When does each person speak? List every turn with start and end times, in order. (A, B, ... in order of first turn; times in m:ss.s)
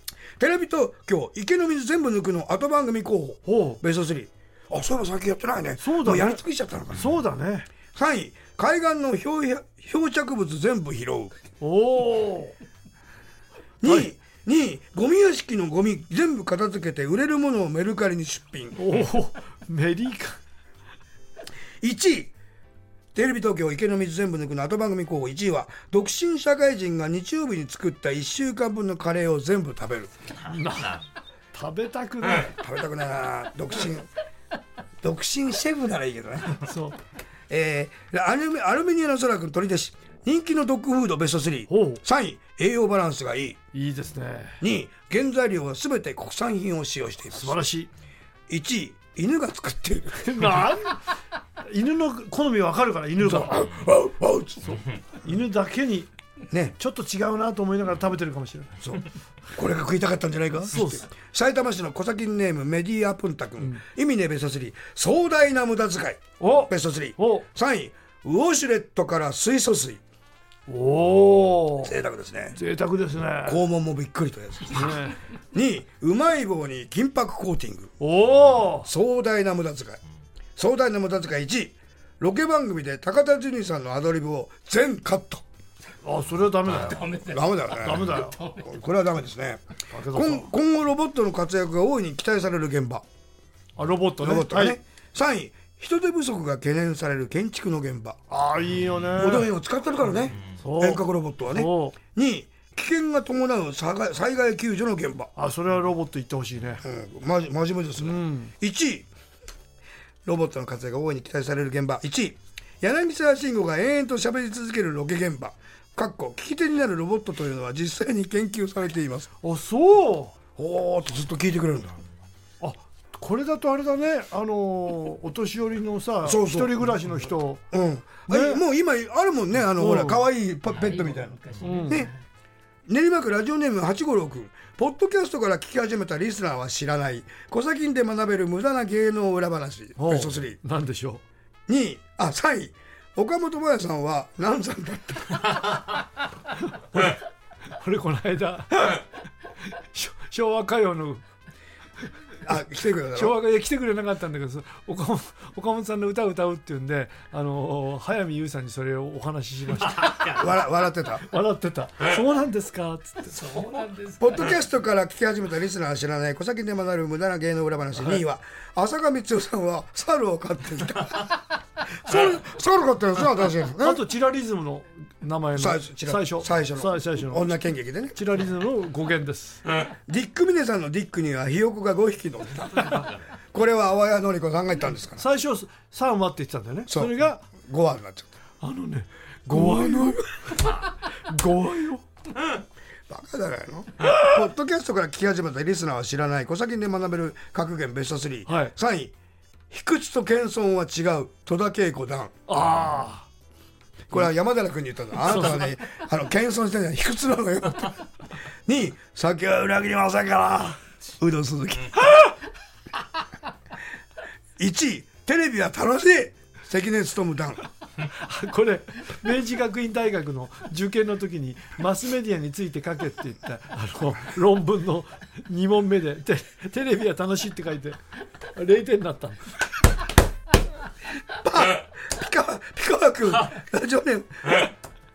0:00.4-0:07.1 A
0:03.4-0:03.8 B
0:05.8-0:06.4 B
0:06.9-0:07.7 B
0:07.9-0:11.4 A
0:11.6-0:12.6 B
0:13.8-0:18.8 A
0:18.8-0:20.4 B
0:21.8-0:22.3 A
0:23.1-0:30.1 A
0:30.4-0:31.0 B
0:31.5-0:32.6 B
0:32.5-0:34.1 A
0:35.0-0:36.6 A
0:36.6-0:37.0 B
0:37.5-0:43.6 A
0:41.7-0:42.0 B
0:43.7-0:44.6 B
0:44.6-0:47.6 A
0:47.3-0:47.9 B
0:48.5-0:50.5 A
0:50.2-0:51.0 B
0:51.6-0:53.8 B
0:53.2-0:54.8 A
0:54.6-0:56.1 B
0:56.7-0:58.8 B
0:58.8-1:10.0 A
1:00.7-1:01.1 B
1:06.4-1:07.4 B
1:10.7-1:11.9 B
1:11.8-1:12.6 A
1:12.5-1:13.6 B
1:13.4-1:15.0 A
1:14.7-1:15.2 B
1:15.5-1:17.9 A
1:18.0-1:18.9 B
1:18.8-1:20.0 A
1:20.6-1:25.4 A
1:26.0-1:28.4 B
1:26.8-1:28.7 C
1:27.2-1:29.6 A
1:29.9-1:30.5 B
1:30.1-1:33.0 A
1:33.8-1:34.8 B
1:34.2-1:38.2 A
1:38.3-1:39.5 B
1:39.2-1:45.3 A
1:40.6-1:42.0 B
1:45.4-1:46.8 B
1:46.8-1:49.1 A
1:48.0-1:48.5 B
1:50.2-1:59.3 A
1:59.4-2:00.3 B
2:00.6-2:02.0 A
2:02.6-2:07.6 B
2:06.2-2:06.9 A
2:07.7-2:12.1 A
2:08.3-2:08.6 B
2:09.7-2:10.3 B
2:10.7-2:12.2 C
2:11.6-2:12.1 B
2:12.9-2:20.6 A
2:20.0-2:21.2 B
2:21.7-2:25.5 A
2:26.8-2:27.2 B
2:27.7-2:29.1 B
2:29.8-2:31.2 B
2:32.4-2:33.4 A
2:33.1-2:40.5 B
2:40.2-2:41.3 A
2:41.2-2:43.7 B
2:43.3-2:44.5 C
2:44.2-2:51.4 A
2:51.9-2:54.0 A
2:53.8-2:57.5 B
2:55.6-2:58.2 A
2:58.1-2:59.6 B
3:00.0-3:05.2 A
3:05.2-3:07.5 B
3:06.9-3:08.3 A
3:08.6-3:12.0 B
3:09.4-3:10.3 A
3:13.1-3:19.1 A
3:18.5-3:18.7 B
3:19.7-3:22.3 A
3:22.5-3:23.3 B
3:24.1-3:28.0 A
3:25.2-3:25.6 B
3:28.6-3:32.2 A
3:34.6-3:37.6 A
3:38.1-3:48.0 B
3:48.5-3:49.4 B
3:51.3-3:54.7 A